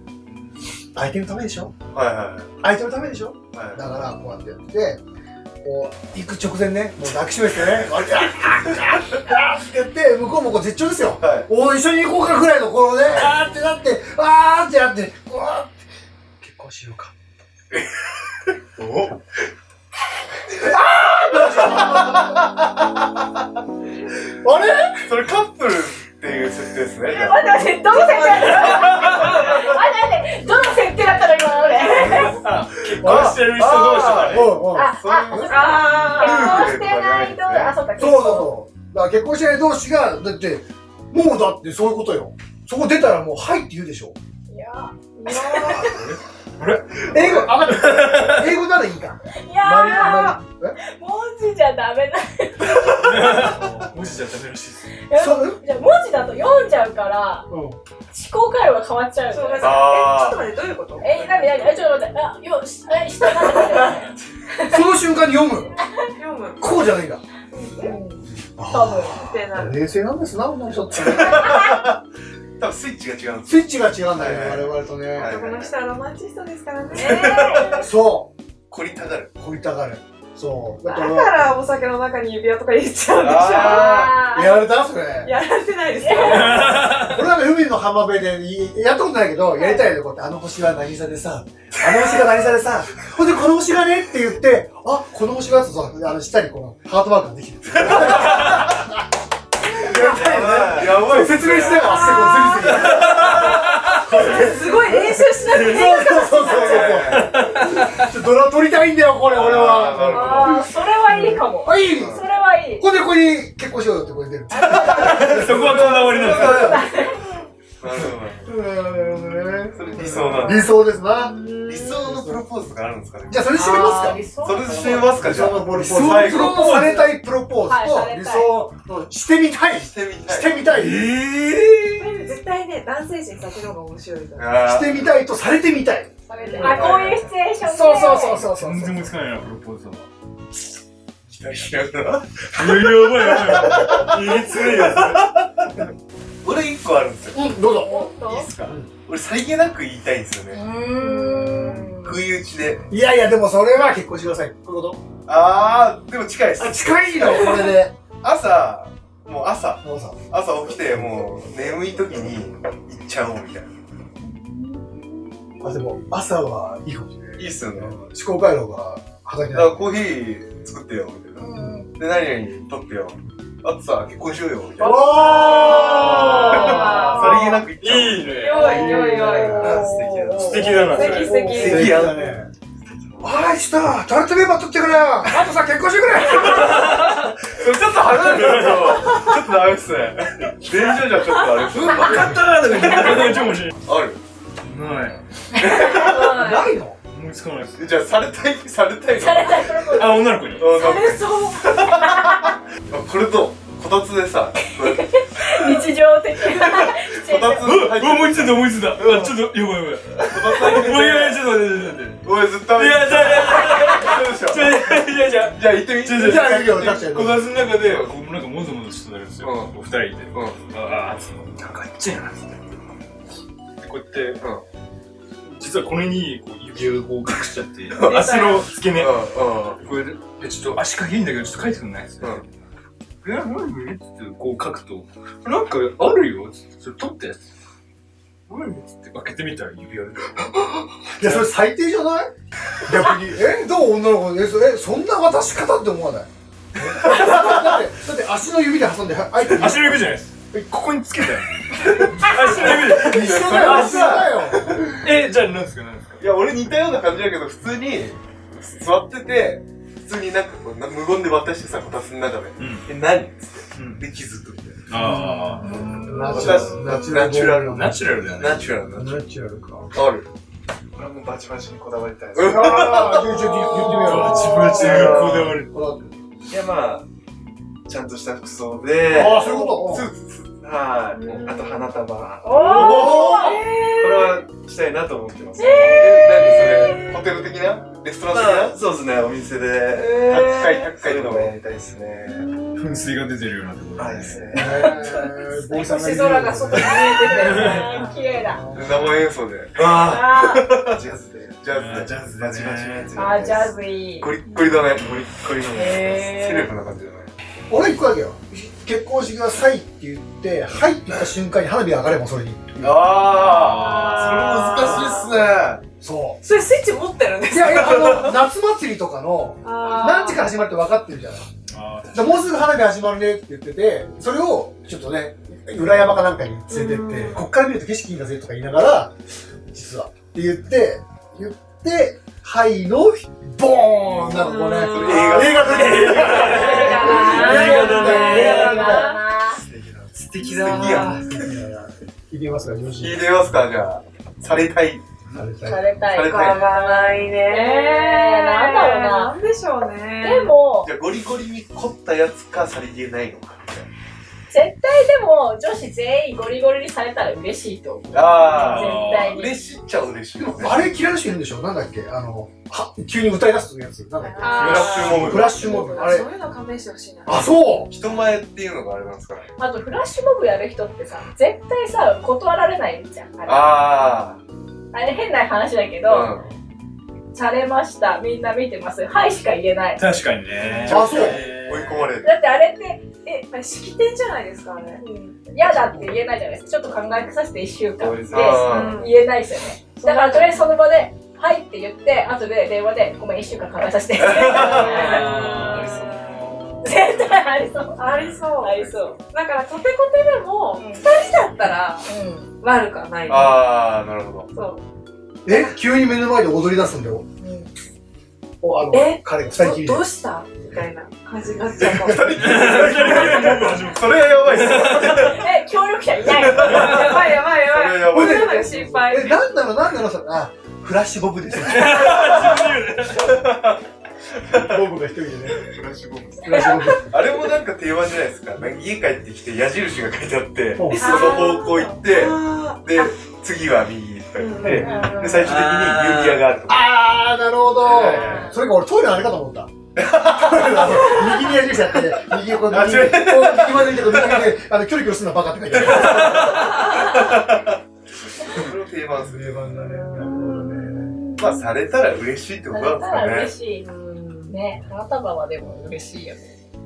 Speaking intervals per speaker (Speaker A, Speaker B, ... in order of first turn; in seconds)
Speaker A: 0.9-1.7, 2.6-5.0, 5.6-15.8, 16.4-17.1, 20.5-22.3, 24.4-25.1, 33.0-33.4, 34.2-35.8, 38.0-44.1, 47.0-50.8, 55.1-55.6, 57.5-57.8, 64.7-65.8, 66.6-67.2, 68.4-71.6, 73.5-75.3, 77.7-78.3, 79.4-81.4, 84.1-85.3, 86.7-99.0, 99.7-112.2, 112.8-116.8, 118.4-122.4, 123.3-124.2, 125.1-131.1, 134.6-137.0, 137.6-139.1, 147.3-148.1, 152.9-155.0, 156.6-157.9, 159.8-160.2, 165.6-169.8, 174.8-177.3, 178.5-179.9, 181.4-182.5, 183.2-187.0, 191.7-192.4, 195.8-197.0, 216.1-217.5, 241.1-242.3, 242.8-250.1, 252.0-254.9, 265.0-268.0, 268.9-269.9, 272.4-276.1, 279.1-280.1, 282.7-283.3, 294.5-297.1, 298.3-299.2, 307.7-313.1, 316.0-316.4, 317.5-321.4, 322.1-329.1, 329.7-339.1, 341.3-343.2, 345.3-345.9, 360.4-366.2, 367.2-367.9, 380.9-381.4, 405.4-407.2, 408.6-410.0, 412.0-413.9, 418.1-422.6, 424.5-425.7, 426.4-427.2, 430.8-431.4, 434.6-434.9, 436.7-439.7, 440.2-446.7, 449.1-451.2
Speaker B: 1.9-2.5, 3.5-3.8, 11.2-11.5, 18.8-19.1, 21.3-22.6, 25.0-29.7, 32.9-37.7, 59.6-60.4, 71.0-72.0, 72.6-75.7, 76.9-77.9, 78.7-79.3, 83.2-84.1, 97.7-98.7, 99.8-102.3, 102.9-103.5, 106.4-107.4, 109.2-110.7, 111.9-112.2, 114.6-117.2, 117.8-118.5, 119.7-120.7, 121.7-127.1, 129.8-130.7, 134.4-135.1, 136.6-137.2, 141.3-145.8, 146.4-147.4, 148.2-150.6, 151.6-152.8, 155.3-157.6, 158.2-163.7, 167.4-168.0, 169.5-175.7, 176.2-178.5, 179.6-180.8, 181.4-182.3, 186.2-194.2, 195.5-196.6, 197.8-205.8, 206.5-209.0, 210.3-211.4, 212.2-217.0, 217.6-218.2, 219.4-219.7, 220.3-220.6, 227.9-229.8, 252.0-254.9, 256.2-265.2, 266.3-269.2, 269.9-270.3, 271.0-275.6, 278.7-281.6, 282.5-288.8, 290.2-291.5, 298.7-307.3, 312.8-315.8, 317.7-318.4, 334.2-337.7, 339.3-341.5, 343.0-345.1, 346.0-346.7, 350.8-353.9, 358.1-360.9, 364.6-366.2, 367.9-369.5, 373.4-374.4, 376.1-376.5, 380.8-382.4, 388.2-389.0, 394.1-395.2, 398.8-399.1, 403.3-404.5, 411.9-415.4, 416.2-418.9, 423.1-423.8, 424.4-424.8, 425.6-436.9, 437.8-438.5, 439.9-441.2, 442.6-444.5, 445.7-447.8, 448.4-449.7, 451.4-453.5
Speaker C: 27.1-32.4, 34.7-38.5, 44.5-45.9, 49.4-53.4, 55.1-57.5, 58.1-59.9, 61.0-64.8, 67.8-68.2, 68.7-69.3, 71.5-71.8, 76.9-77.9, 83.5-84.6, 86.0-86.5, 110.1-112.8, 114.5-115.3, 116.2-117.2, 123.5-125.2, 127.6-128.5, 136.3-138.4, 150.5-152.2, 164.3-164.8, 171.4-171.9, 175.8-177.3, 179.4-181.8, 195.6-196.2, 199.1-201.2, 201.8-202.5, 204.8-207.8, 265.6-266.8, 282.4-283.6, 285.6-287.1, 290.0-290.9, 292.3-292.8, 294.7-295.3, 296.7-298.6, 299.8-300.7, 303.1-304.3, 305.7-306.7, 336.2-339.6, 345.6-349.3, 350.2-350.9, 354.5-359.6, 364.4-365.1, 369.6-374.1, 374.9-376.3, 377.3-380.0, 382.2-383.4, 385.0-396.0, 396.8-398.1, 398.6-399.2, 400.8-401.1, 402.1-402.5, 407.4-407.7, 415.2-417.2, 430.9-431.9, 434.8-435.4, 437.9-438.6, 450.1-451.7, 452.7-453.9, 454.5-456.5
Speaker D: 27.9-29.0, 35.6-36.7, 45.1-46.0, 59.3-61.8, 66.2-66.7, 67.5-68.2, 69.1-69.8, 75.1-77.6, 80.8-84.1, 85.2-86.9, 101.7-102.7, 104.1-107.0, 120.1-122.0, 124.7-125.0, 132.0-134.6, 136.3-136.9, 147.7-148.5, 150.9-151.8, 175.4-177.6, 178.2-182.1, 195.9-196.7, 200.8-201.8, 281.2-281.9, 282.7-284.4, 285.7-286.9, 295.7-298.0, 304.5-304.8, 313.8-315.3, 316.4-318.3, 319.6-320.4, 326.7-327.5, 335.1-335.5, 336.7-338.9, 346.2-350.5, 364.2-367.4, 383.5-385.0, 388.4-389.2, 389.9-390.7, 394.6-396.3, 398.0-402.1, 402.6-403.8, 404.5-404.8, 408.9-412.7, 416.5-419.4, 430.9-433.1, 434.4-435.5, 449.8-450.7, 453.8-454.5
Speaker E: 28.5-29.4, 32.0-34.6, 45.8-48.5, 52.9-55.0, 86.2-87.2, 102.9-104.2, 107.1-108.1, 115.0-116.8, 125.7-126.8, 130.7-132.0, 138.4-140.1, 142.6-145.3, 175.3-177.2, 177.7-179.1, 180.4-181.5, 186.4-187.4, 188.3-188.9, 191.8-193.7, 194.6-195.2, 197.1-197.9, 199.9-200.8, 207.6-222.7, 223.8-224.4, 225.4-229.2, 229.8-232.4, 233.2-237.4, 238.5-240.7, 249.4-254.3, 254.9-256.2, 262.6-262.9, 263.7-264.0, 264.9-265.8, 267.7-268.7, 273.9-275.8, 292.8-294.5, 297.4-298.1, 301.7-303.3, 313.3-314.9, 321.7-322.6, 334.4-339.0, 340.2-341.4, 358.5-359.4, 364.6-365.5, 380.0-382.1, 394.8-397.3, 412.4-415.4, 416.7-417.1, 421.6-423.4, 435.5-436.4, 445.8-446.8
Speaker F: 179.9-180.5, 276.5-277.0, 277.9-279.6, 280.6-283.2, 284.0-285.6, 288.3-292.5, 294.0-294.8, 340.6-341.1, 388.0-388.9